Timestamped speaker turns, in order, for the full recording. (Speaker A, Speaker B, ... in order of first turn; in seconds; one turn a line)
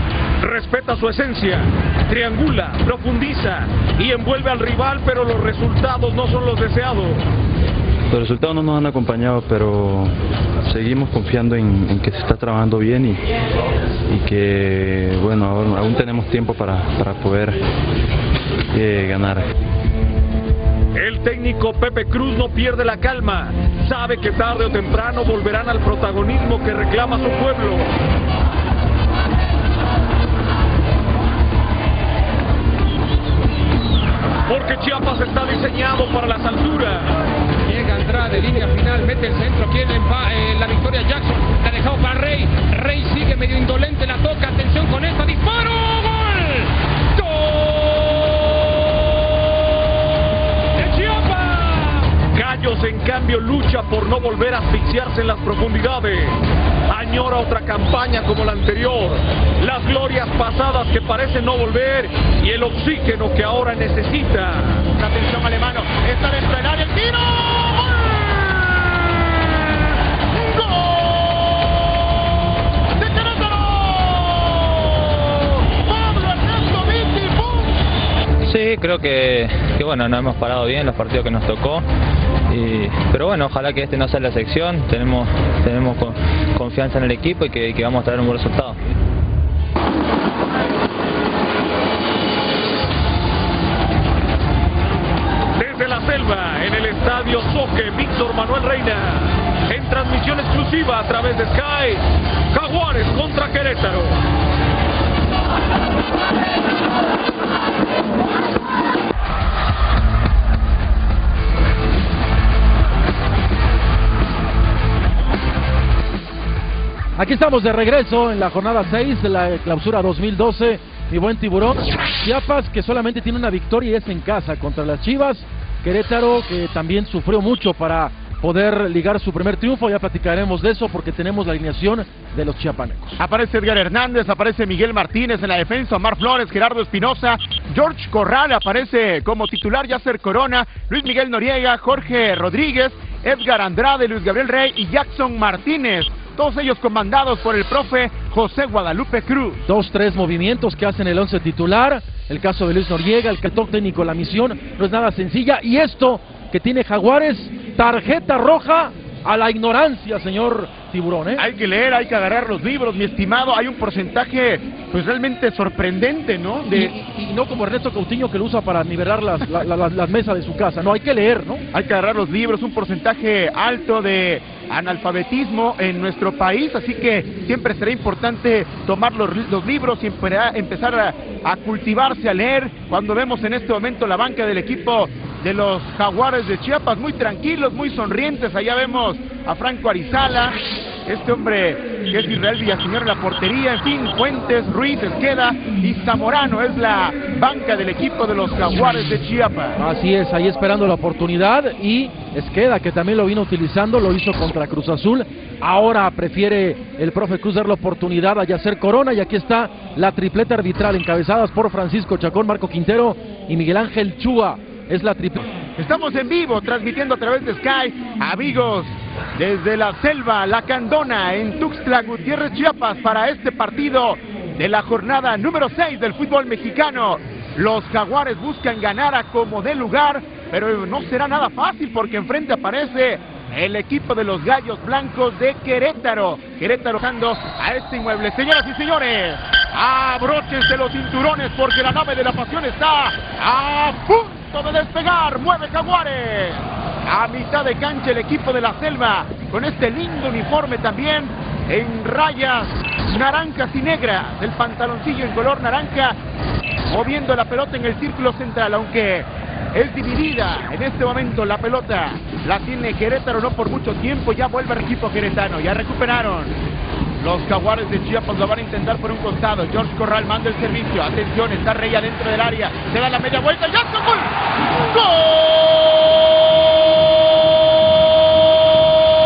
Speaker A: 0.4-7.2
Speaker B: 8.1-13.3
Speaker B: 14.1-17.6
Speaker B: 18.7-19.5
Speaker A: 20.9-27.9
Speaker A: 34.5-37.1
Speaker C: 37.6-46.7
Speaker A: 47.2-48.0
Speaker A: 50.8-64.8
Speaker D: 64.9-69.8
Speaker D: 70.3-71.8
Speaker D: 73.0-77.8
Speaker E: 78.5-81.9
Speaker E: 82.5-88.8
Speaker A: 95.6-104.2
Speaker F: 117.2-133.2
Speaker D: 133.2-149.6
Speaker F: 149.7-161.4
Speaker D: 161.4-166.9
Speaker F: 166.7-171.6
Speaker D: 171.7-199.8
Speaker F: 199.8-215.5
Speaker D: 215.8-256.2
Speaker D: 256.9-266.6
Speaker D: 267.2-275.6